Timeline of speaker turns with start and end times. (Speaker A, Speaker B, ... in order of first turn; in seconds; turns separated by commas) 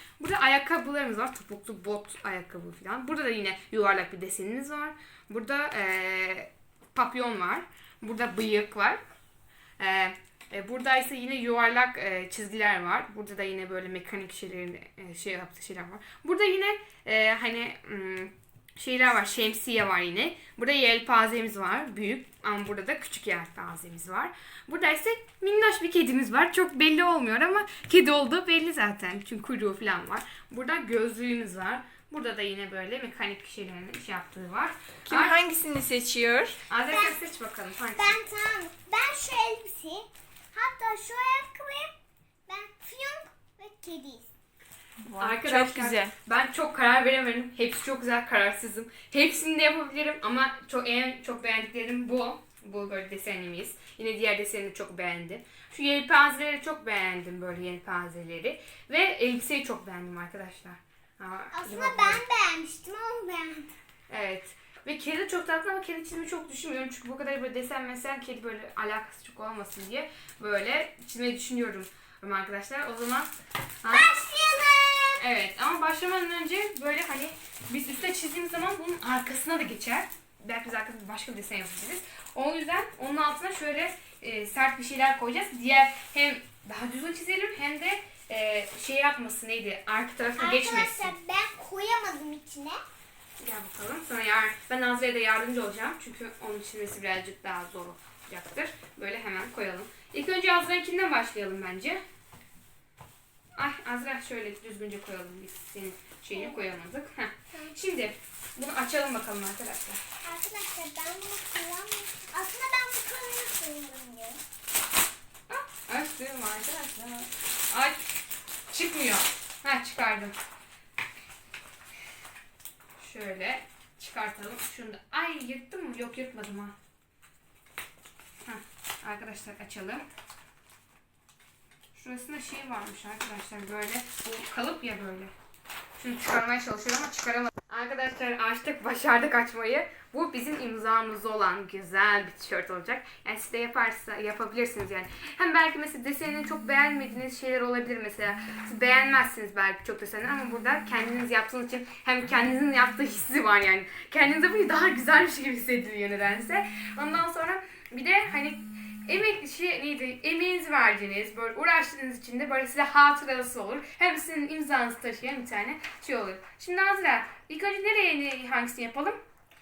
Speaker A: 0.2-9.0, Speaker A: 9.8-35.4, Speaker B: 35.0-36.6, Speaker A: 36.7-38.2, Speaker C: 36.9-37.2, Speaker C: 38.0-42.0, Speaker C: 42.5-44.3, Speaker B: 45.0-46.1, Speaker A: 45.2-62.2, Speaker C: 61.5-63.7, Speaker A: 64.1-73.3, Speaker A: 73.8-74.1, Speaker C: 73.9-75.2, Speaker A: 75.2-91.1, Speaker C: 90.3-92.8, Speaker A: 93.4-102.0, Speaker A: 103.6-110.0, Speaker C: 106.3-106.6, Speaker C: 110.2-114.4, Speaker A: 115.5-118.0, Speaker A: 118.7-120.3, Speaker A: 123.0-126.7, Speaker A: 128.4-130.0, Speaker A: 131.9-135.3, Speaker A: 136.0-169.2